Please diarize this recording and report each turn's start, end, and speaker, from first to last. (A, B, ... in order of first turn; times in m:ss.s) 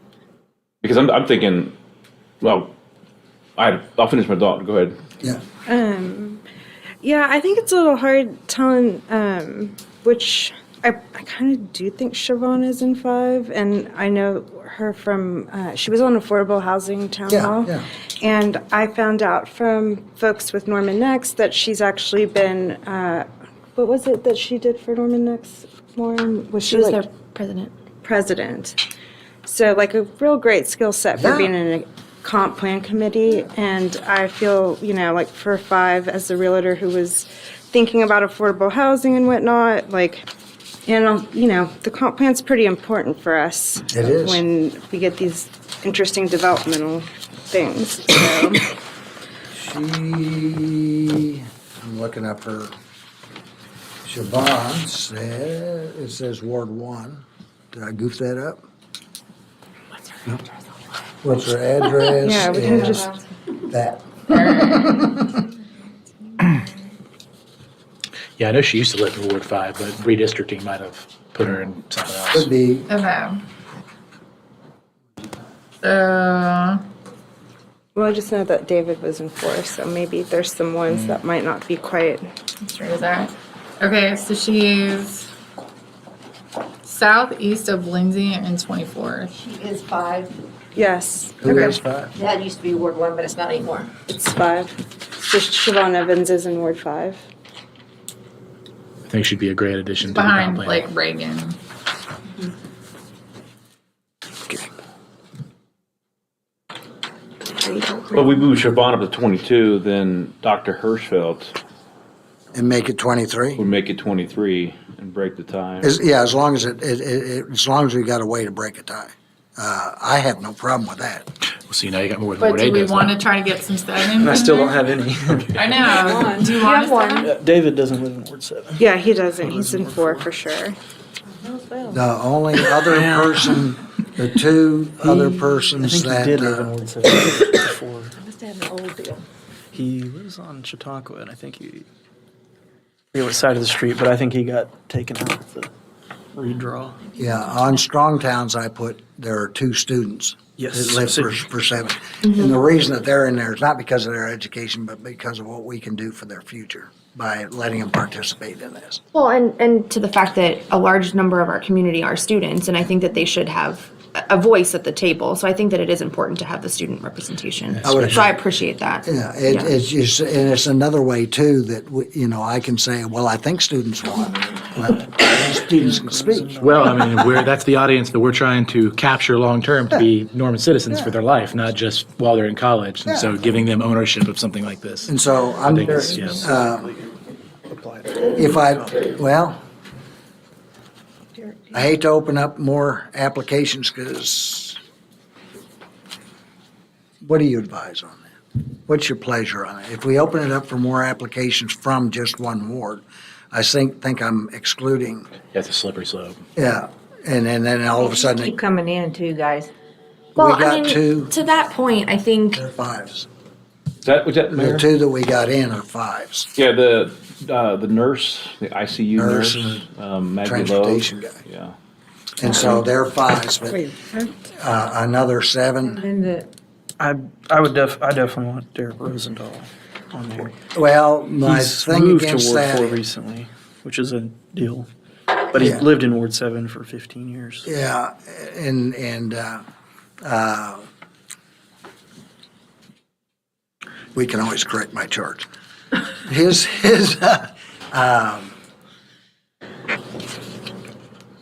0:00.8-0:01.7 A
0:02.4-0:02.7 A
0:03.6-0:05.0 A
0:05.7-0:06.4 B
0:07.0-0:23.2 B
0:17.3-0:17.9 C
0:23.8-0:27.0 B
0:26.6-0:27.7 D
0:28.0-0:28.8 B
0:29.4-0:40.3 B
0:31.2-0:31.5 C
0:40.9-0:48.6 B
0:43.9-0:44.4 C
0:49.5-0:52.7 C
0:54.0-0:58.6 C
1:01.2-1:03.0 C
1:02.2-1:03.1 B
1:03.7-1:05.3 C
1:04.3-1:05.0 E
1:08.4-1:12.5 F
1:12.3-1:12.9 C
1:12.9-1:13.4 E
1:15.8-1:16.8 E
1:18.0-1:22.2 B
1:22.6-1:25.3 E
1:26.8-1:29.3 E
1:29.3-1:30.3 G
1:30.8-1:31.7 B
1:31.4-1:32.1 C
1:31.5-1:31.8 E
1:32.2-1:33.9 G
1:34.1-1:37.2 B
1:39.1-1:40.9 F
1:40.1-1:41.6 E
1:48.1-1:51.6 A
1:52.5-1:53.6 C
1:53.6-1:55.9 A
1:55.8-2:01.3 C
2:01.6-2:03.2 F
2:02.4-2:04.9 E
2:04.2-2:05.9 H
2:05.5-2:07.2 E
2:06.0-2:07.3 B
2:07.2-2:10.3 H
2:08.8-2:10.8 B
2:11.3-2:12.0 G
2:11.9-2:16.7 C
2:12.8-2:13.7 H
2:15.0-2:18.2 H
2:18.2-2:19.2 G
2:19.7-2:21.9 H
2:23.1-2:25.7 H
2:26.3-2:27.1 H
2:27.2-2:39.0 C
2:30.6-2:31.4 H
2:32.2-2:32.6 D
2:39.1-2:49.7 D
2:47.8-2:48.2 F
2:47.8-2:48.3 C
2:49.0-2:56.5 C
2:55.1-2:57.4 H
2:56.6-3:06.5 F
3:03.0-3:03.3 C
3:05.1-3:06.9 C
3:05.9-3:09.1 H
3:08.3-3:09.6 C
3:11.7-3:14.8 C
3:17.2-3:18.2 C
3:18.8-3:25.3 C
3:25.5-3:26.4 F
3:26.6-3:28.6 C
3:28.2-3:29.7 G
3:30.4-3:32.6 D
3:30.4-3:31.3 C
3:32.5-3:33.3 C
3:34.0-3:34.8 A
3:34.5-3:36.5 C
3:36.6-3:41.8 A
3:39.2-3:39.8 C
3:40.4-3:41.4 C
3:42.4-3:43.8 C
3:43.9-3:44.2 B
3:44.4-3:46.0 C
3:47.0-3:50.6 H
3:50.7-3:53.0 C
3:51.4-3:54.9 H
3:55.5-3:57.7 H
3:55.6-3:55.8 C
3:57.6-3:59.6 C
4:00.2-4:00.8 C
4:04.1-4:05.4 C
4:06.2-4:08.5 C